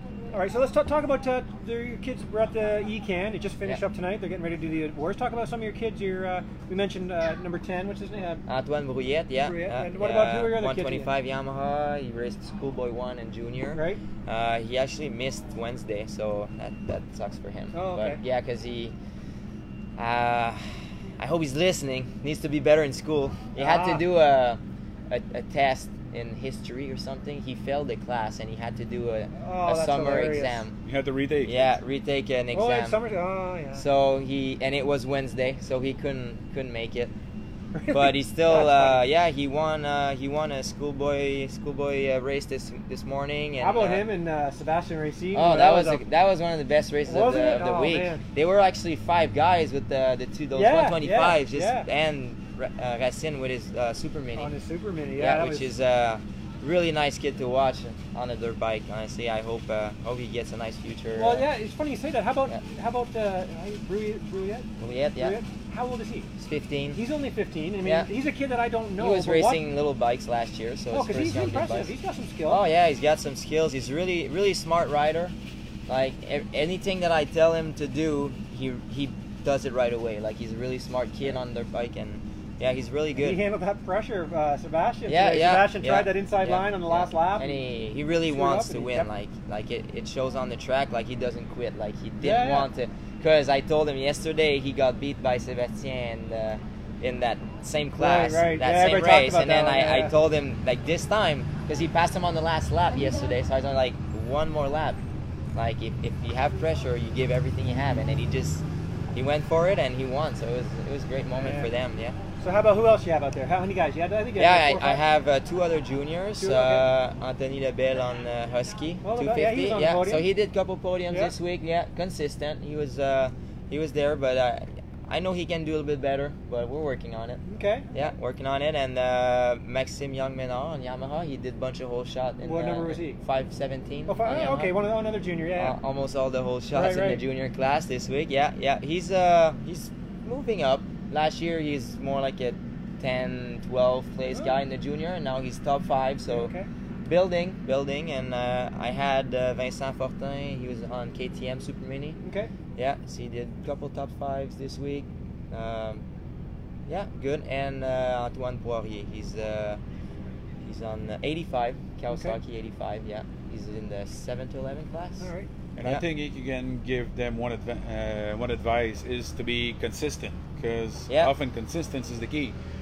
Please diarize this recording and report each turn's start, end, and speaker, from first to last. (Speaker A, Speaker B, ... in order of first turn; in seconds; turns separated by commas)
Speaker A: 0.3-8.4, Speaker B: 8.5-18.9, Speaker A: 9.4-11.1, Speaker A: 13.7-14.0, Speaker A: 17.7-18.2, Speaker B: 20.0-30.7, Speaker A: 23.6-24.1, Speaker A: 29.4-30.6, Speaker C: 30.8-31.8, Speaker B: 31.4-33.0, Speaker A: 32.5-33.8, Speaker B: 33.7-37.1, Speaker A: 37.7-39.0, Speaker B: 37.9-44.1, Speaker A: 43.6-46.0, Speaker B: 45.3-54.5, Speaker A: 47.1-48.2, Speaker A: 50.5-51.9, Speaker A: 54.4-55.7, Speaker B: 55.1-61.5, Speaker A: 61.1-66.3, Speaker B: 64.8-65.4, Speaker B: 66.4-67.0, Speaker A: 66.9-69.6, Speaker B: 67.8-68.1, Speaker B: 69.0-71.9, Speaker A: 70.9-72.6, Speaker B: 72.5-75.3, Speaker B: 75.9-83.4, Speaker A: 83.2-87.6, Speaker B: 85.1-105.0, Speaker A: 88.2-89.1, Speaker A: 92.2-92.7, Speaker A: 98.0-100.1, Speaker B: 105.5-112.2, Speaker A: 111.3-111.7, Speaker A: 112.4-115.0, Speaker B: 114.4-127.4, Speaker A: 116.4-116.9, Speaker A: 119.0-120.3, Speaker A: 127.4-128.0, Speaker B: 127.9-134.8, Speaker A: 132.4-133.2, Speaker A: 134.1-135.8, Speaker B: 135.6-146.5, Speaker A: 136.7-137.2, Speaker A: 144.3-144.6, Speaker A: 146.3-146.7, Speaker B: 147.0-152.2, Speaker A: 152.2-152.5, Speaker B: 152.8-156.0, Speaker B: 156.9-159.8, Speaker B: 160.6-165.3, Speaker A: 162.1-162.4, Speaker A: 165.2-165.5, Speaker C: 165.8-172.6